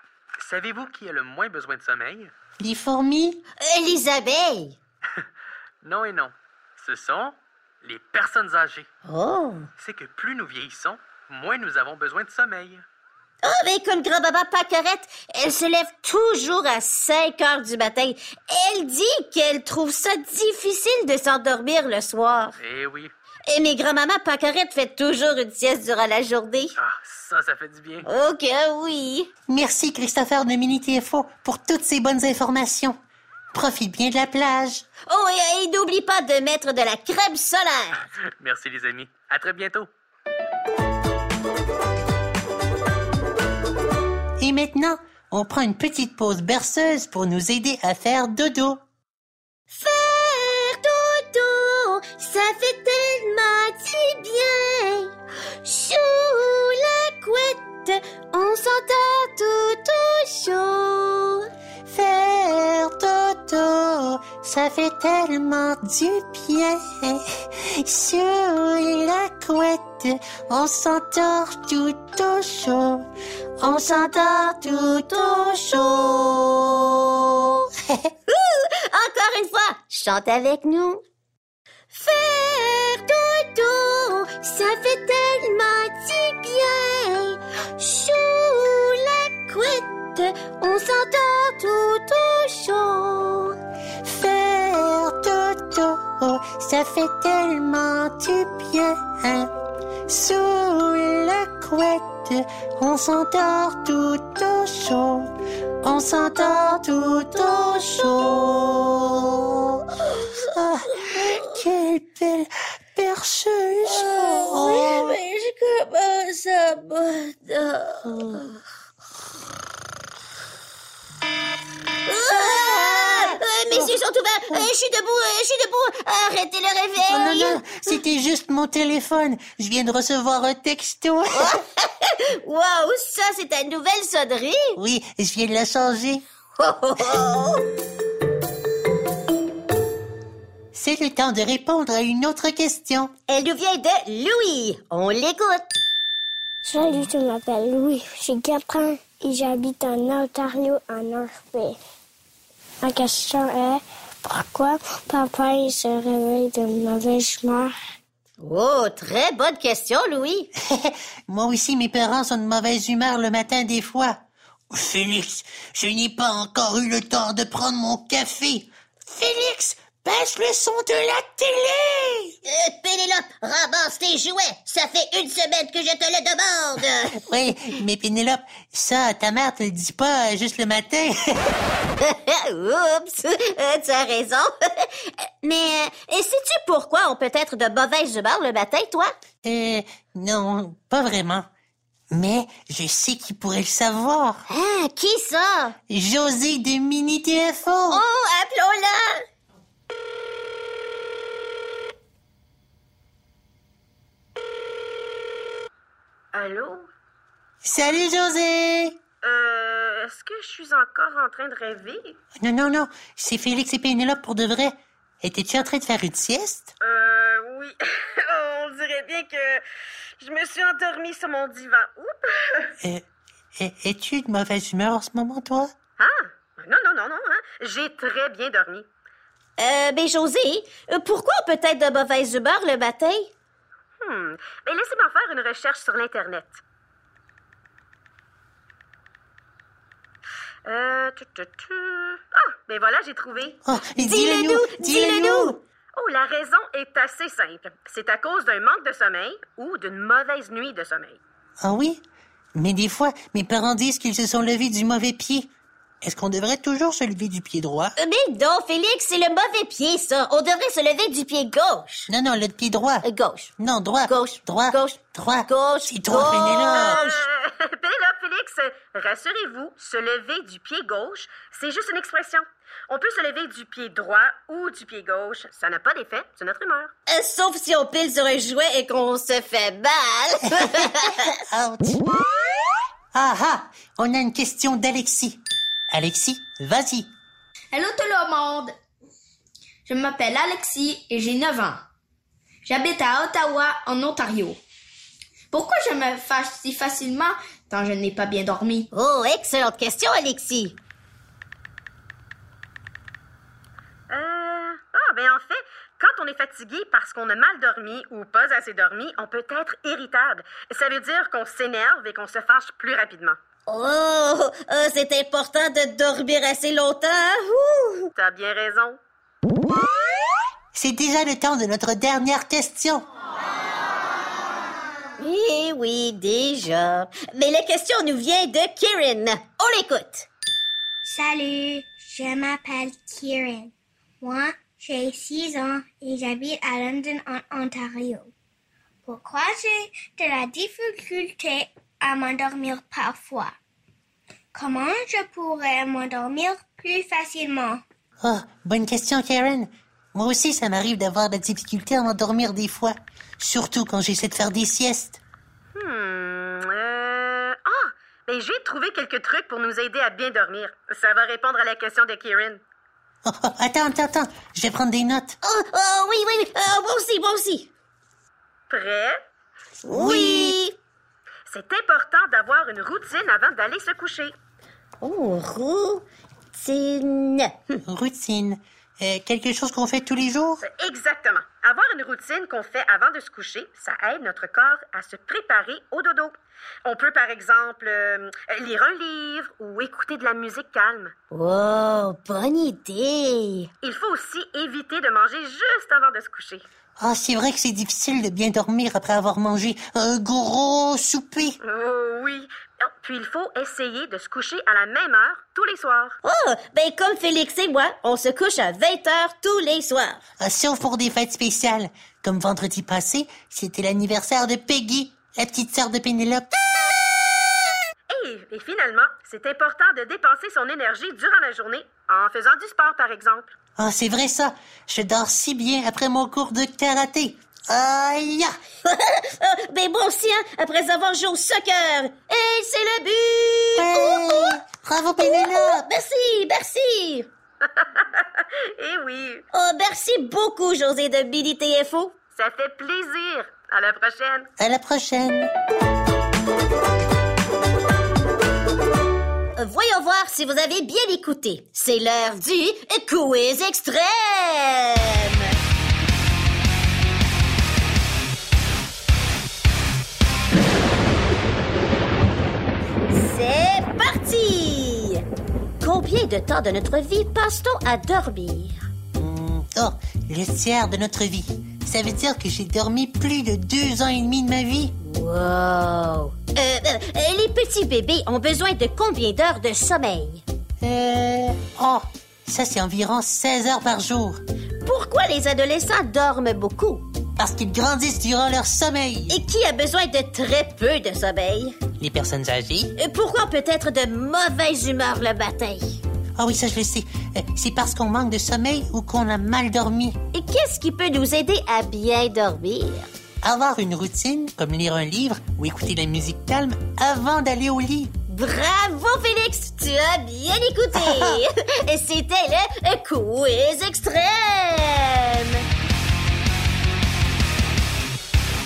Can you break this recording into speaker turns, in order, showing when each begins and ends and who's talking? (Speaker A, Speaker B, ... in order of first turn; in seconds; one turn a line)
Speaker A: 0.4-2.3
Speaker B: 2.6-3.4
Speaker C: 3.6-4.8
Speaker A: 5.8-8.9
Speaker C: 9.1-9.7
Speaker A: 9.8-12.8
Speaker C: 13.4-22.6
Speaker A: 22.6-23.1
Speaker C: 23.5-26.8
Speaker A: 26.8-28.1
Speaker C: 28.1-29.3
Speaker B: 29.5-33.0
Speaker B: 33.5-34.8
Speaker C: 35.1-38.0
Speaker A: 38.4-39.9
Speaker B: 44.4-48.8
Speaker C: 49.7-55.1
Speaker C: 55.6-61.4
Speaker B: 61.9-73.1
Speaker B: 73.6-75.5
Speaker C: 75.0-76.3
Speaker C: 78.3-81.0
Speaker C: 81.9-93.5
Speaker B: 94.0-99.5
Speaker B: 100.1-109.2
Speaker C: 110.1-110.4
Speaker B: 110.5-115.2
Speaker C: 111.0-111.5
Speaker C: 113.8-118.5
Speaker B: 118.0-118.4
Speaker C: 122.1-128.0
Speaker B: 122.8-123.9
Speaker B: 127.0-131.6
Speaker C: 131.3-134.8
Speaker B: 134.8-136.2
Speaker C: 136.6-137.6
Speaker B: 140.7-143.1
Speaker C: 143.3-145.7
Speaker D: 146.6-151.8
Speaker D: 152.8-157.7
Speaker C: 158.4-160.5
Speaker B: 160.7-164.2
Speaker B: 164.7-172.3
Speaker C: 172.5-177.2
Speaker B: 177.2-181.2
Speaker C: 182.0-189.1
Speaker B: 189.4-191.5
Speaker B: 192.1-194.4
Speaker C: 194.5-195.8
Speaker B: 195.9-198.0
Speaker C: 197.9-199.2
Speaker E: 206.3-206.9
Speaker B: 207.6-208.9
Speaker E: 209.2-212.2
Speaker B: 212.4-216.7
Speaker E: 216.8-219.6
Speaker E: 220.2-222.7
Speaker B: 223.6-225.7
Speaker E: 226.0-228.9
Speaker C: 229.6-233.3
Speaker E: 234.0-236.6
Speaker E: 240.7-243.6
Speaker B: 243.7-245.6
Speaker C: 244.0-245.6
Speaker E: 245.9-251.2
Speaker B: 251.6-252.0
Speaker B: 252.6-255.5
Speaker B: 256.0-257.9
Speaker C: 258.0-262.1
Speaker B: 262.1-263.1
Speaker C: 263.0-263.5
Speaker B: 263.6-267.0
Speaker C: 264.1-267.2
Speaker E: 266.4-276.9
Speaker C: 277.1-281.3
Speaker B: 281.5-282.0
Speaker B: 283.1-287.1
Speaker F: 287.7-288.7
Speaker F: 289.9-291.8
Speaker F: 292.6-294.6
Speaker F: 295.5-298.9
Speaker C: 298.9-300.8
Speaker E: 304.1-313.4
Speaker C: 313.7-318.1
Speaker E: 318.1-319.0
Speaker B: 320.7-323.0
Speaker C: 325.2-330.3
Speaker D: 331.0-338.3
Speaker D: 339.1-343.5
Speaker D: 344.5-347.8
Speaker B: 348.2-355.2
Speaker E: 355.8-362.6
Speaker B: 363.2-365.4
Speaker C: 365.4-367.7
Speaker E: 368.7-369.2
Speaker C: 369.9-370.8
Speaker B: 369.9-370.6
Speaker E: 371.5-374.3
Speaker C: 375.0-377.8
Speaker B: 377.8-380.6
Speaker E: 380.6-391.1
Speaker C: 391.3-393.7
Speaker E: 393.8-396.6
Speaker B: 397.0-401.6
Speaker E: 401.6-406.2
Speaker C: 406.2-410.2
Speaker B: 410.4-416.5
Speaker E: 418.1-423.5
Speaker B: 423.8-428.5
Speaker C: 428.9-434.6
Speaker B: 433.8-435.9
Speaker C: 435.2-437.3
Speaker E: 437.8-439.4
Speaker C: 439.5-442.1
Speaker E: 442.4-444.5
Speaker B: 444.6-445.5
Speaker C: 449.6-455.4
Speaker C: 463.1-465.2
Speaker C: 465.8-468.8
Speaker B: 469.2-474.9
Speaker C: 475.0-480.4
Speaker B: 480.8-484.4
Speaker C: 484.8-487.0
Speaker B: 487.4-489.4
Speaker C: 489.3-491.8
Speaker B: 492.0-492.9
Speaker C: 493.0-496.0
Speaker B: 496.4-500.2
Speaker C: 500.3-503.1
Speaker B: 503.4-508.1
Speaker C: 508.3-515.6
Speaker B: 510.9-511.4